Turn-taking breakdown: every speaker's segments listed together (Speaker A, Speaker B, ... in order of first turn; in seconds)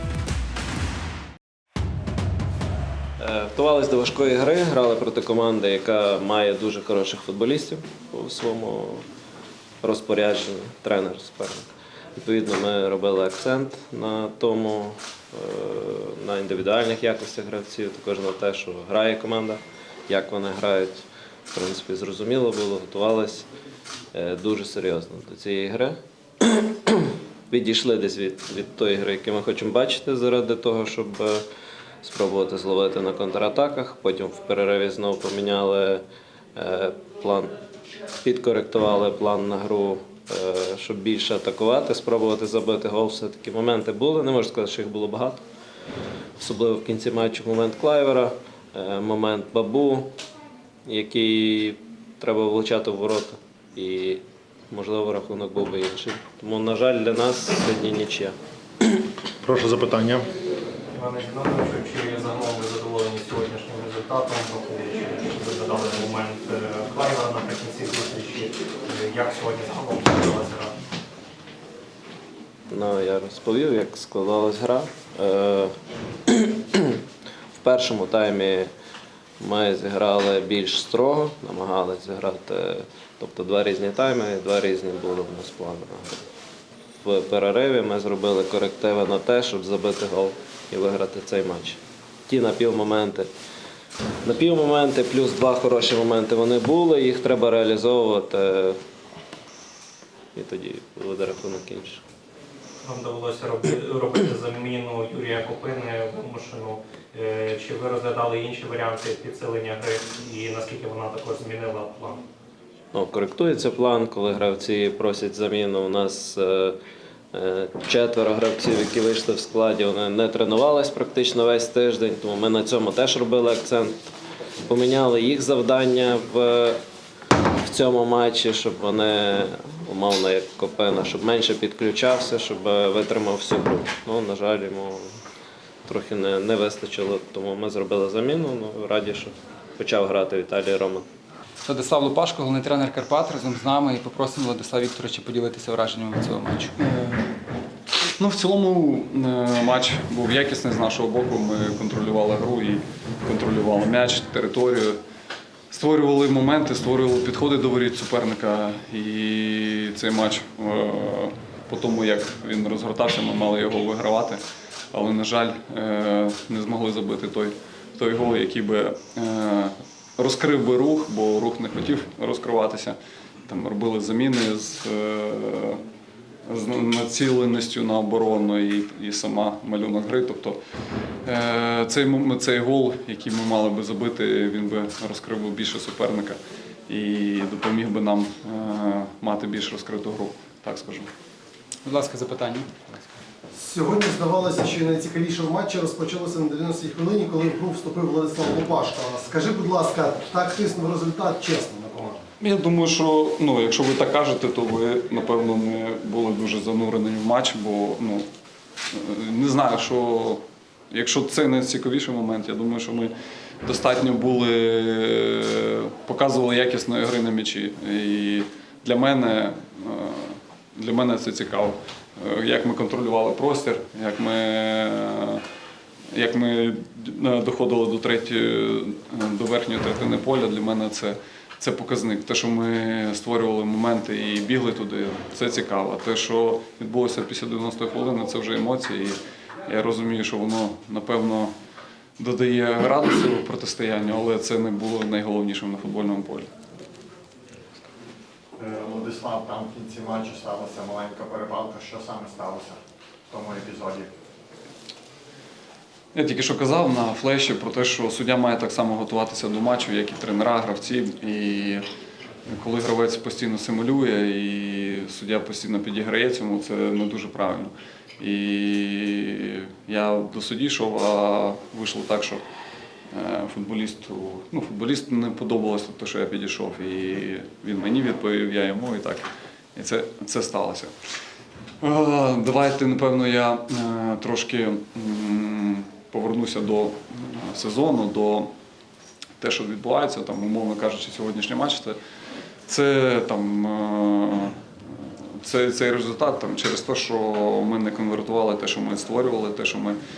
Speaker A: 3.2-9.0, 9.8-23.5, 24.1-31.4, 32.0-36.0, 36.6-37.6, 38.2-45.5, 46.4-50.1, 50.9-58.3, 72.7-75.8, 76.3-77.0, 77.5-78.7, 79.4-86.2, 87.0-93.3, 94.2-98.8, 100.3-102.0, 112.9-116.8, 117.3-124.1, 124.6-126.8, 127.6-135.1, 135.8-141.1
Speaker B: 59.4-60.3, 248.6-252.8, 253.3-254.1
Speaker C: 60.9-70.8, 102.8-112.2
Speaker D: 141.6-146.7, 191.8-193.1
Speaker E: 146.8-147.3, 148.0-155.0, 155.7-164.4, 164.9-172.9, 173.5-175.8, 176.4-180.6, 181.2-191.1, 202.4-208.2, 208.9-213.1, 213.6-225.4, 226.1-241.5, 242.2-246.5, 256.1-261.8, 262.5-272.4, 273.1-280.9, 281.8-288.5, 289.4-292.0, 292.7-294.6, 295.4-300.0
Speaker F: 193.5-202.2